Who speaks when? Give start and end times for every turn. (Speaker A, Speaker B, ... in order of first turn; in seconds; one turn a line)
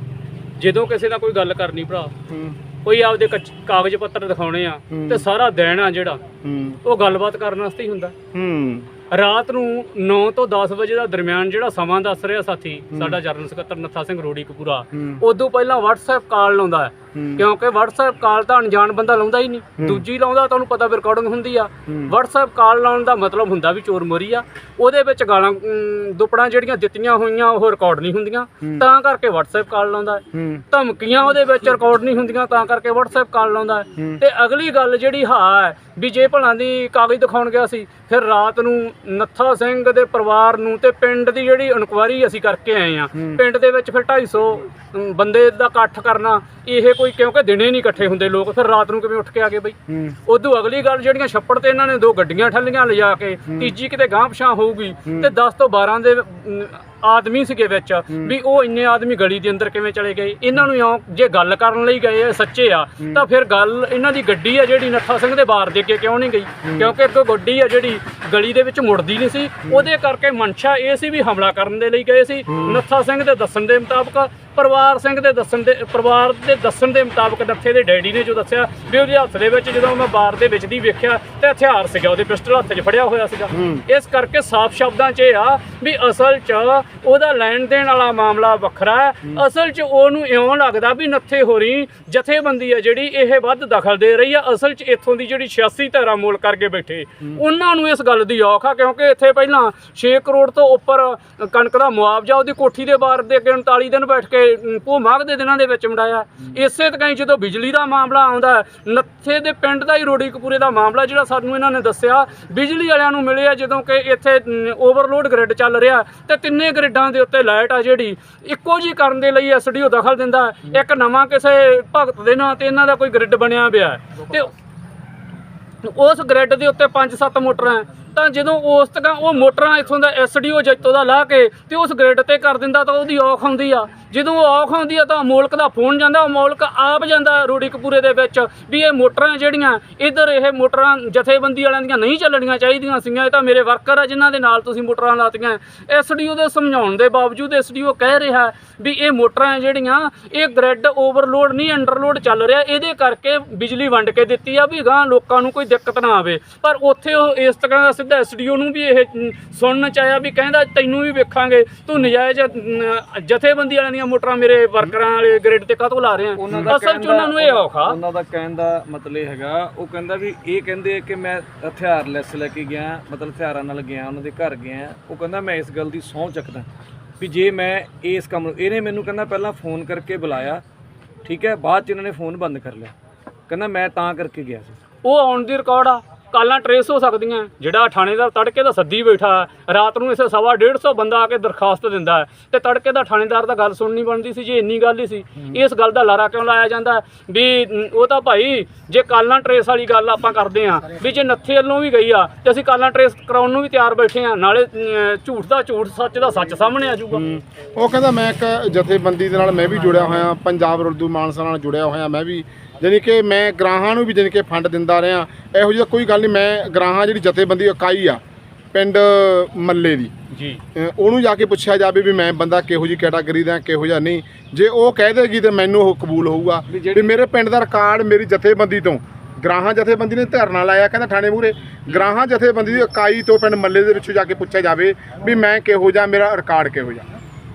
Speaker A: 0.6-2.1
Speaker B: 2.3-2.6
Speaker A: 2.8-6.2
Speaker B: 4.9-5.2
Speaker B: 6.4-6.8
Speaker A: 6.8-8.1
Speaker B: 8.3-8.9
Speaker A: 9.1-124.5
Speaker B: 14.9-15.2
Speaker B: 17.1-17.4
Speaker B: 19.8-20.0
Speaker B: 21.9-22.1
Speaker B: 30.3-30.6
Speaker B: 43.2-43.4
Speaker B: 49.9-50.2
Speaker B: 55.1-55.3
Speaker B: 66.6-66.9
Speaker B: 72.5-72.8
Speaker B: 83.5-83.8
Speaker A: 125.8-168.0
Speaker C: 166.4-176.7
Speaker C: 177.2-180.6
Speaker C: 181.2-182.9
Speaker C: 183.5-184.8
Speaker A: 185.0-207.2
Speaker B: 207.1-218.2
Speaker B: 218.7-220.1
Speaker A: 220.3-220.6
Speaker B: 220.8-237.1
Speaker C: 226.7-227.1